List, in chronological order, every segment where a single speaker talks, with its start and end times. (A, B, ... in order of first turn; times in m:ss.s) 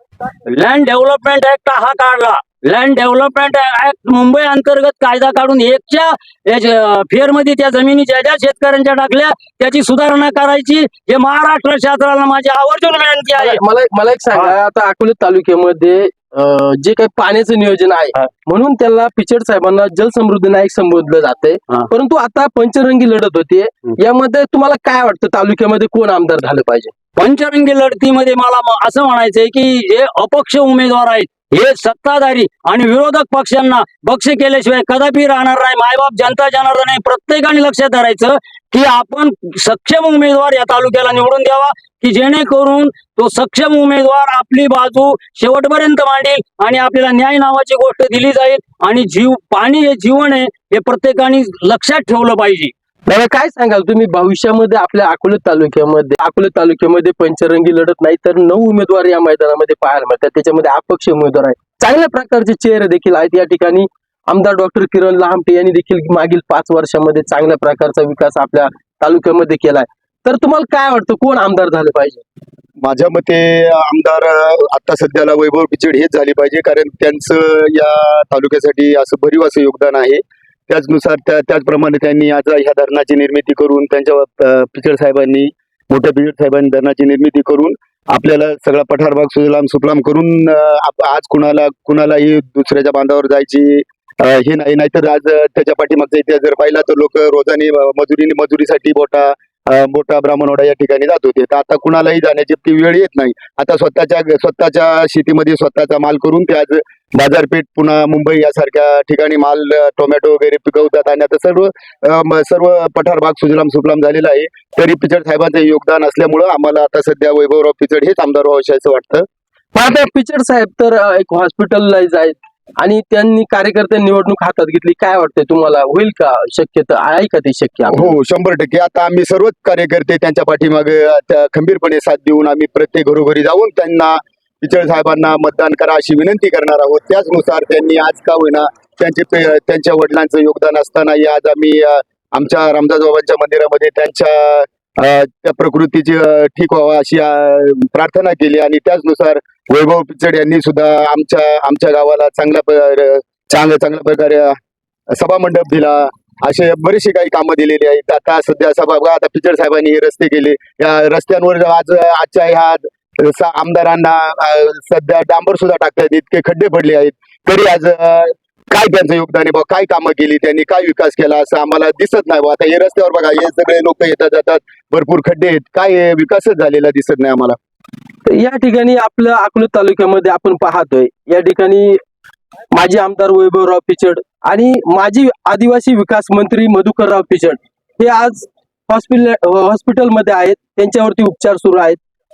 0:00.5-0:13.6 A
0:13.3-0:26.9 B
0:27.2-0:52.7 A
0:53.0-1:12.2 B
1:12.8-1:59.2 C
1:59.7-2:08.1 B
2:07.9-2:34.6 C
2:35.1-2:57.6 C
2:58.2-3:02.0 B
3:02.7-3:12.0 B